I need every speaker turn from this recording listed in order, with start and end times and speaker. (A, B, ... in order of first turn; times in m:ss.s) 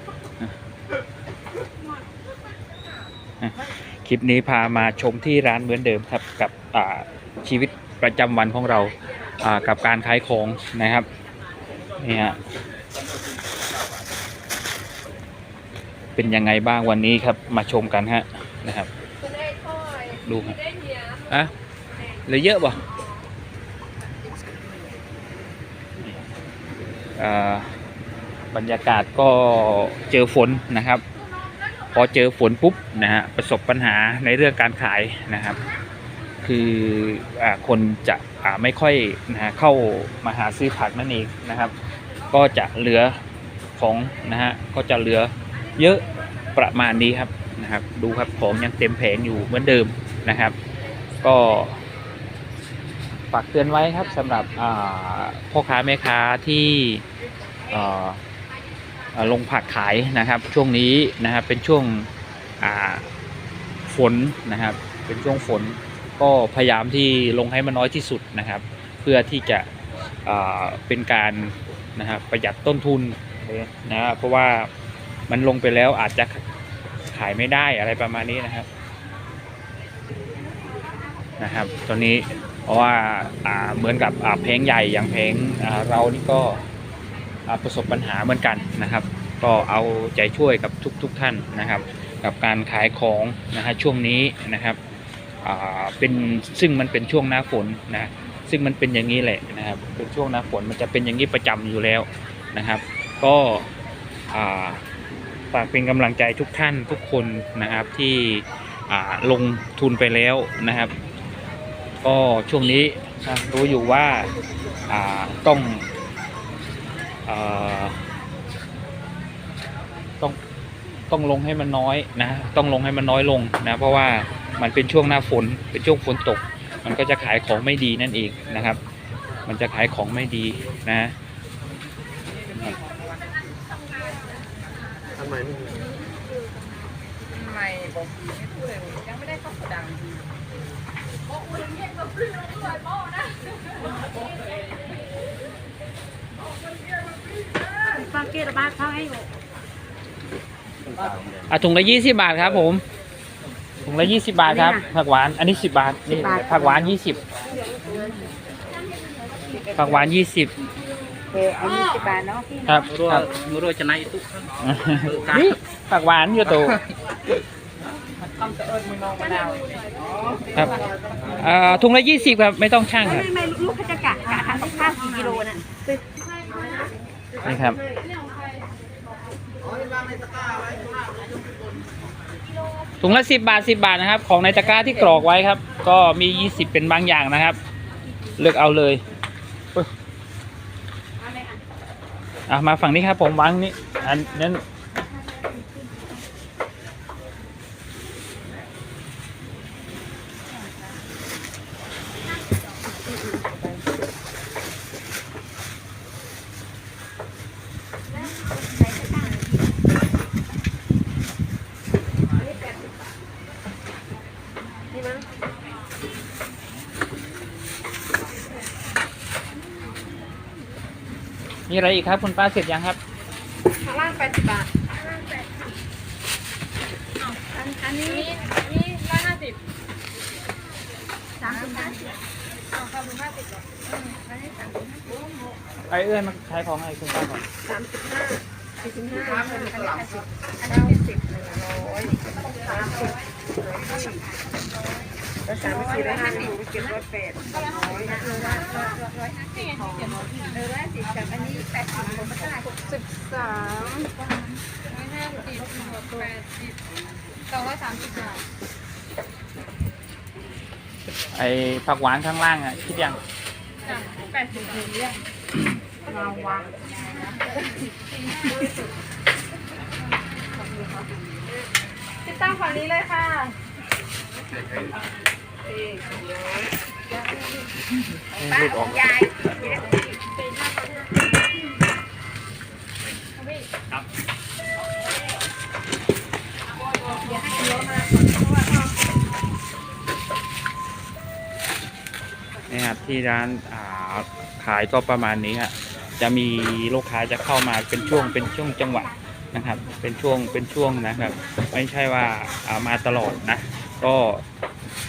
0:03.4-0:11.1 A
0:12.0-0:12.4 A
0:16.1-0:18.9 A
0:20.2-0:20.6 A
0:22.2-0:22.8 A
0:27.2-0:27.8 A
0:28.5-0:31.0 A
0:31.9-0:35.6 A
0:36.4-0:41.7 A
0:42.3-0:43.1 A
0:43.8-0:50.6 A
0:51.2-0:51.8 A
0:53.3-0:57.0 A
0:57.7-0:58.2 A
0:59.1-1:02.1 A
1:02.6-1:03.0 A
1:03.8-1:09.7 A
1:10.2-1:14.7 A
1:15.3-1:16.4 A
1:17.1-1:18.7 A
1:21.4-1:26.6 A
1:27.5-1:34.8 A
1:35.4-1:43.7 A
1:44.3-1:44.8 A
1:45.5-1:50.9 A
1:52.0-1:54.3 A
1:54.9-1:55.8 A
1:57.2-1:58.0 A
2:01.1-2:08.8 A
2:09.4-2:11.1 A
2:12.5-2:12.8 A
2:15.3-2:15.6 B
2:17.3-2:17.8 C
2:17.5-2:20.1 B
2:19.1-2:19.5 C
2:28.0-2:29.2 B
2:31.5-2:32.8 A
2:33.8-2:37.2 A
2:37.5-2:38.3 B
2:39.4-2:39.8 B
2:39.7-2:40.5 A
2:41.3-2:42.5 B
2:42.6-2:43.3 A
2:42.9-2:44.5 D
2:44.6-2:46.8 A
2:45.2-2:45.5 D
2:48.4-2:49.3 D
2:49.1-2:50.1 B
2:50.5-2:50.8 A
2:51.3-2:53.3 A
2:53.0-2:56.0 B
2:57.4-2:57.8 A
3:03.0-3:07.6 A
3:08.4-3:09.0 A
3:12.5-3:14.6 A
3:23.2-3:23.8 B
3:34.9-3:35.2 B
3:41.7-3:43.0 A
3:43.8-3:44.9 B
3:47.5-3:48.3 B
3:48.0-3:49.6 C
3:51.4-3:52.1 C
3:51.4-3:52.1 B
3:52.7-3:54.5 C
3:54.2-3:54.7 B
3:55.9-3:57.4 A
3:57.6-4:04.2 B
4:00.7-4:01.0 C
4:05.4-4:14.1 B
4:05.8-4:06.4 C
4:07.5-4:10.6 C
4:14.9-4:16.8 C
4:17.5-4:18.4 C
4:21.3-4:23.2 A
4:23.8-4:25.2 C
4:26.1-4:27.4 C
4:26.2-4:26.6 B
4:32.2-4:33.6 C
4:35.7-4:36.7 B
4:38.3-4:39.2 A
4:38.4-4:40.0 B
4:40.3-4:41.0 C
4:43.4-4:43.7 C
4:47.4-4:48.0 B
4:52.7-5:04.4 A